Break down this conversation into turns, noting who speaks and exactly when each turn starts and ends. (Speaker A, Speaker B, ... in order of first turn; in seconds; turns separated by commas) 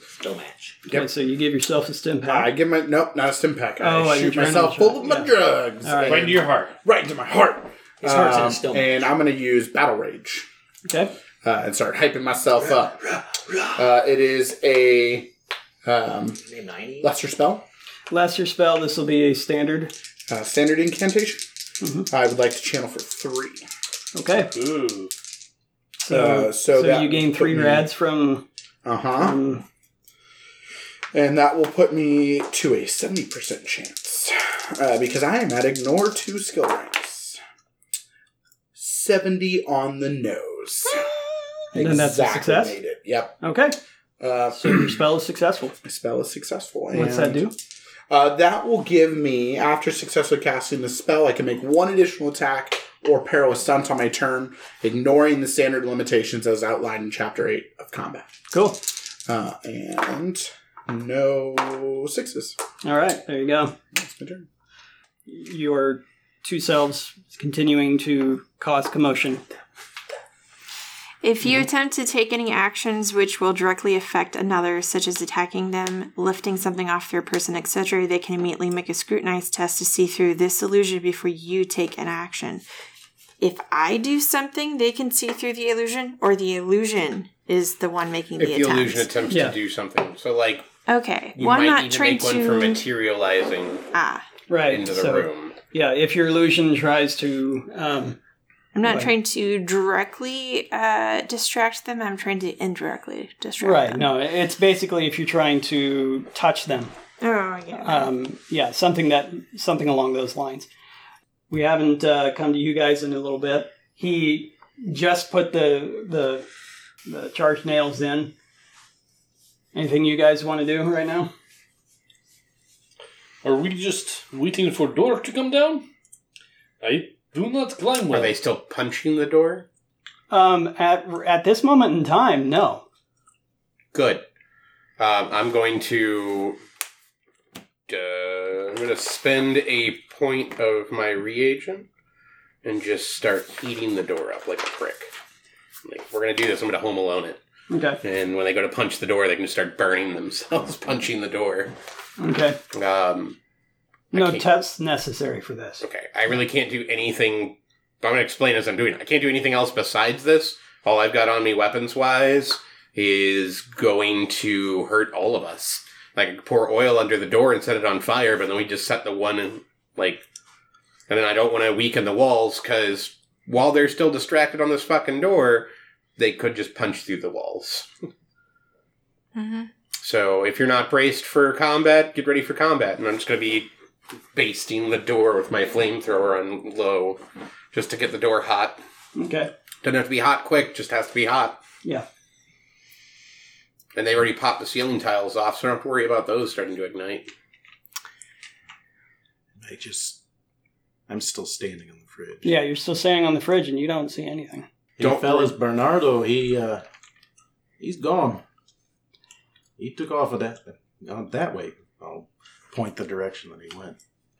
Speaker A: 0.2-0.8, Speaker B: 0.9-2.5, Speaker C: 2.2-10.5, Speaker B: 3.8-5.3, Speaker B: 5.8-6.3, Speaker D: 6.0-6.8, Speaker A: 8.0-9.1, Speaker B: 10.8-11.1, Speaker C: 11.4-13.0, Speaker A: 13.1-13.8, Speaker C: 13.8-15.3, Speaker C: 15.8-16.4, Speaker A: 16.4-17.1, Speaker C: 17.0-17.6, Speaker B: 18.1-19.9, Speaker C: 20.3-21.4, Speaker B: 21.8-22.1, Speaker C: 22.1-23.7, Speaker B: 24.1-24.5, Speaker D: 24.4-25.1, Speaker B: 26.0-28.4, Speaker C: 26.1-27.9, Speaker C: 28.8-29.4, Speaker B: 29.2-29.6, Speaker C: 31.1-37.4, Speaker C: 38.8-41.2, Speaker C: 41.7-43.4, Speaker B: 41.7-42.8, Speaker B: 43.4-43.8, Speaker C: 44.2-45.0, Speaker B: 44.5-45.8, Speaker C: 45.8-47.5, Speaker B: 46.9-47.5, Speaker C: 48.1-58.3, Speaker B: 58.5-58.8, Speaker C: 59.3-62.6, Speaker B: 62.8-63.8, Speaker C: 63.9-64.5, Speaker B: 65.3-69.4, Speaker E: 71.2-82.6, Speaker E: 83.4-89.1, Speaker F: 88.4-90.7, Speaker B: 89.3-89.6, Speaker E: 90.9-92.8, Speaker F: 91.4-93.9, Speaker E: 93.9-94.3, Speaker B: 94.5-98.2, Speaker F: 94.7-95.6, Speaker E: 98.7-104.1, Speaker B: 98.8-99.1, Speaker B: 103.6-106.9, Speaker E: 107.2-108.1, Speaker B: 107.8-110.7, Speaker B: 111.5-116.5, Speaker B: 117.1-118.3, Speaker B: 119.7-121.3, Speaker D: 123.4-125.9, Speaker D: 126.8-128.3, Speaker F: 128.1-129.7, Speaker B: 130.3-132.8, Speaker F: 133.9-134.2, Speaker F: 135.0-136.6, Speaker F: 137.9-141.9, Speaker F: 142.6-145.1, Speaker F: 145.8-147.4, Speaker B: 147.7-148.0, Speaker F: 148.0-151.7, Speaker B: 152.2-152.6, Speaker F: 152.7-153.4, Speaker F: 154.1-154.5, Speaker B: 154.1-155.8, Speaker F: 155.8-170.2, Speaker F: 171.1-177.9, Speaker E: 179.4-179.7, Speaker F: 180.0-183.7, Speaker F: 184.3-187.2, Speaker F: 187.7-188.8, Speaker B: 189.2-189.5, Speaker F: 189.8-191.6, Speaker F: 193.9-197.3, Speaker G: 199.6-200.2, Speaker G: 201.1-202.6, Speaker B: 202.4-204.7, Speaker G: 205.0-206.8, Speaker C: 205.0-205.5, Speaker G: 207.8-208.4, Speaker G: 209.8-214.0